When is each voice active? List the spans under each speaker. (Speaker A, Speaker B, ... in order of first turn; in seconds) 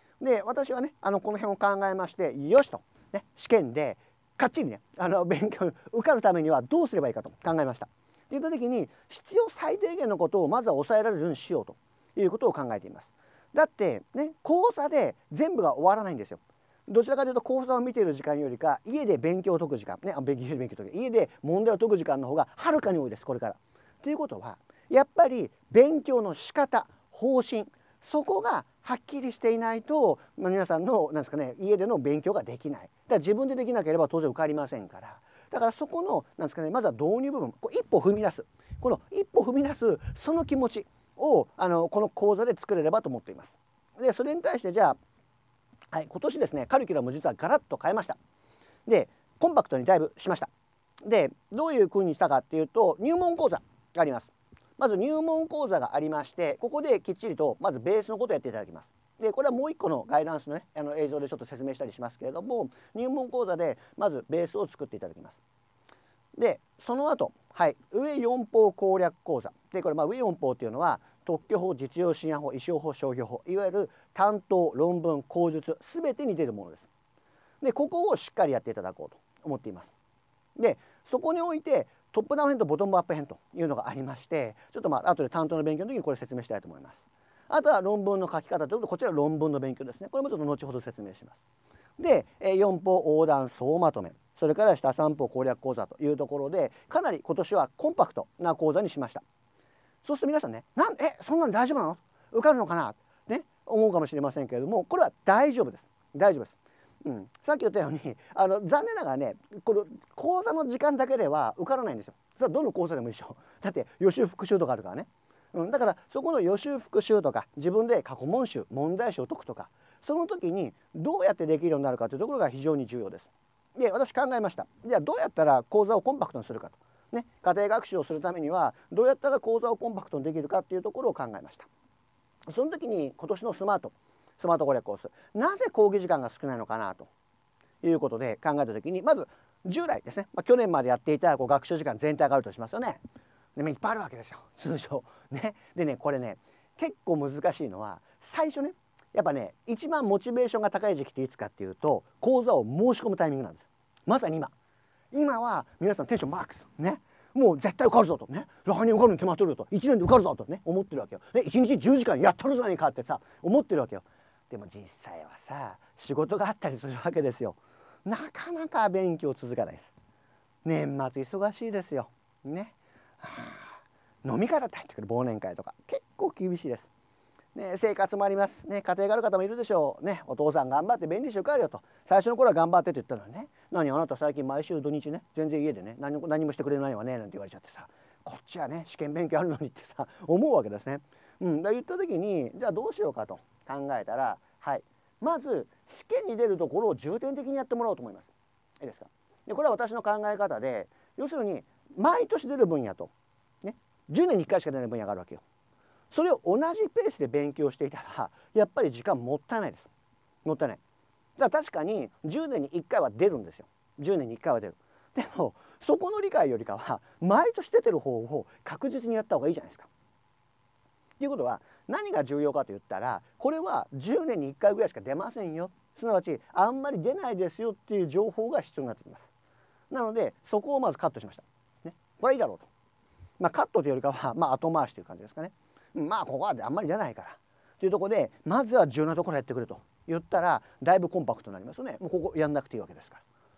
Speaker A: 0.2-45.0, 45.9-48.2, 48.9-50.5, 51.0-65.4, 66.4-76.9, 77.6-79.9, 80.6-91.4, 92.0-99.2, 100.0-131.7, 132.5-137.1, 137.8-143.0, 143.6-154.5, 155.1-169.9, 170.7-176.9, 177.6-203.1, 203.6-205.4, 206.1-209.9, 210.4-210.8, 211.4-219.9, 221.2-229.3, 229.9-232.7, 233.4-243.2